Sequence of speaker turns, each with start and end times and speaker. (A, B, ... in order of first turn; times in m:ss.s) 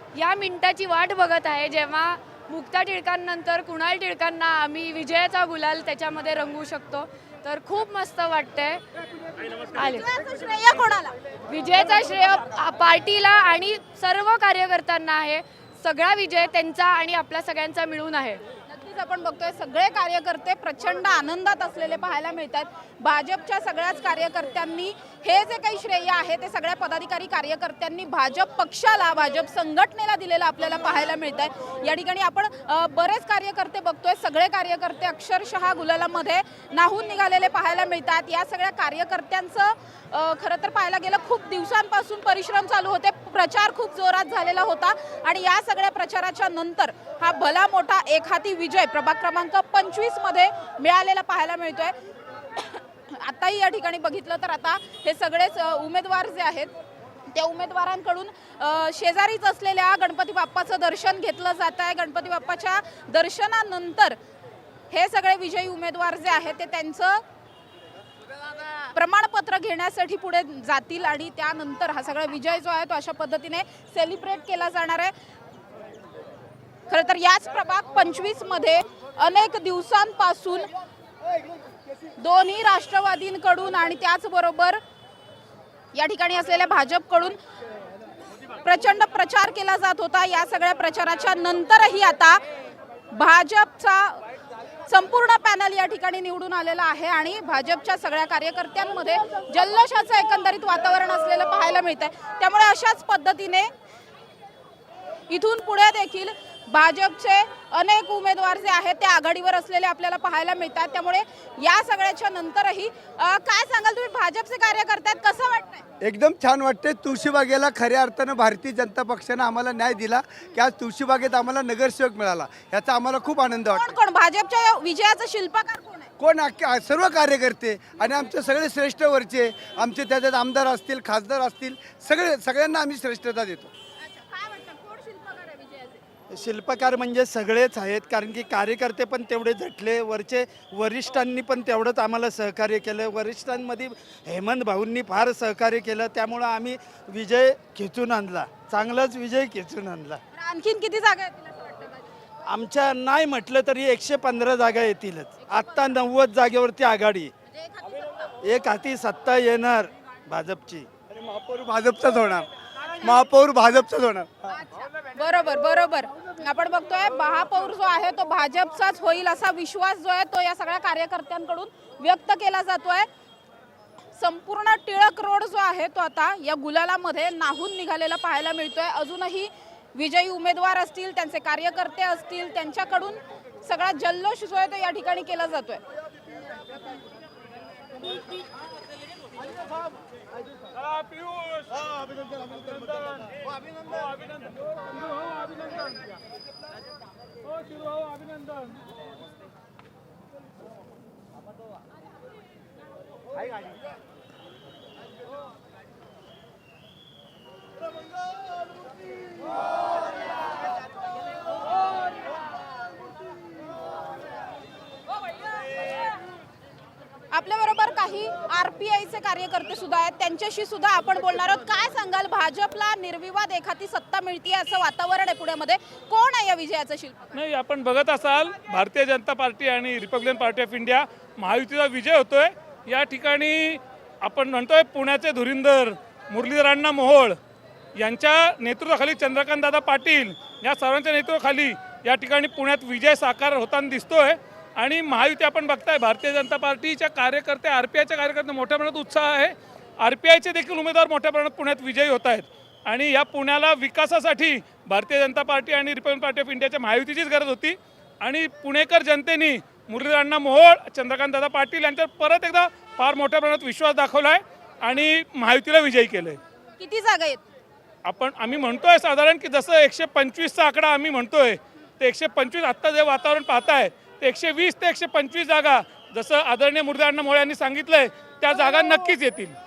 0:00.1-0:08.8 A
0:09.7-0:10.0 A
0:09.8-0:11.1 B
0:11.5-0:18.4 A
0:18.7-0:51.9 B
0:53.2-0:56.7 B
0:57.3-1:04.2 B
1:04.9-1:07.2 B
1:08.9-1:15.1 B
1:16.9-1:20.7 B
1:22.2-1:24.8 B
1:25.9-1:27.4 B
1:28.6-1:32.4 B
1:33.1-1:34.2 B
1:34.9-1:43.7 B
1:45.3-1:55.8 B
1:56.0-2:03.9 C
2:03.7-2:06.1 B
2:06.2-2:13.7 C
2:14.0-2:16.0 B
2:16.3-2:30.2 D
2:30.3-2:32.1 B
2:32.5-2:37.3 D
2:35.4-2:35.9 B
2:37.4-2:38.3 B
2:38.4-2:40.9 D
2:41.2-2:42.5 C
2:43.0-2:44.3 C
2:44.5-2:53.1 B
2:54.2-3:05.8 B
3:37.3-3:47.3 B
3:47.3-3:57.4 E
3:58.0-4:26.4 E
4:26.8-4:27.4 B
4:28.0-4:39.6 E
4:38.5-4:39.0 B